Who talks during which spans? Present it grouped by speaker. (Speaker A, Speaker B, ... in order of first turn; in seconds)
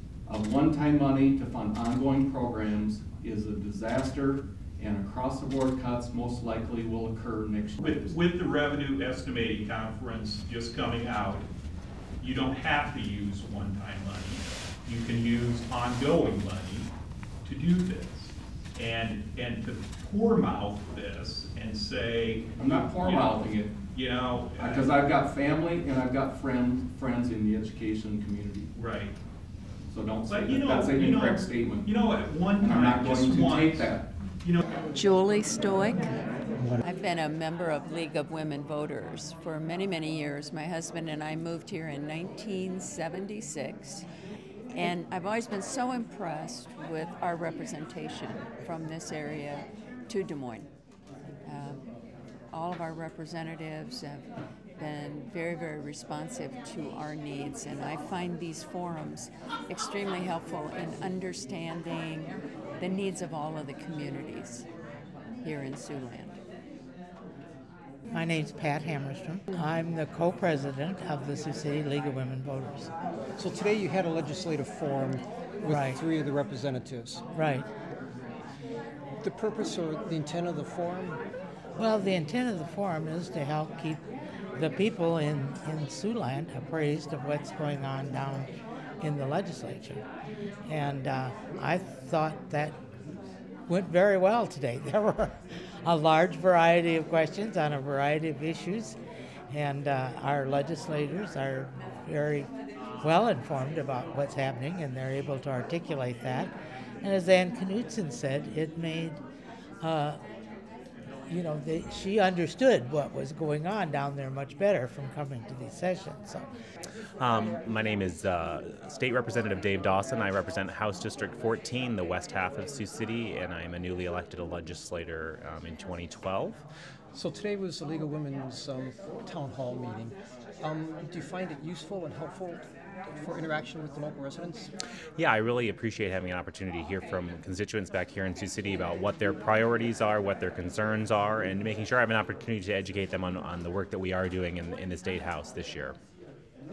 Speaker A: 0.2-8.2, 22.6-23.8, 24.6-28.7, 29.9-31.9, 32.6-34.1
Speaker B: 7.8-11.5, 12.2-16.9, 17.4-25.0, 28.7-29.1, 30.2-34.6
Speaker C: 34.9-36.1, 36.8-44.1, 44.7-50.7, 51.4-51.8, 52.5-64.7, 65.4-66.4
Speaker D: 68.1-72.9, 75.7-76.0, 77.3-77.7, 81.8-84.0, 84.5-88.5, 89.0-90.0, 90.7-92.8, 93.7-99.0, 99.5-102.5, 103.0-106.5, 107.0-109.2, 109.8-110.2, 111.3-116.5
Speaker E: 73.4-77.2, 79.2-81.2, 127.1-132.7, 133.2-134.7
Speaker F: 117.2-126.6, 135.2-145.9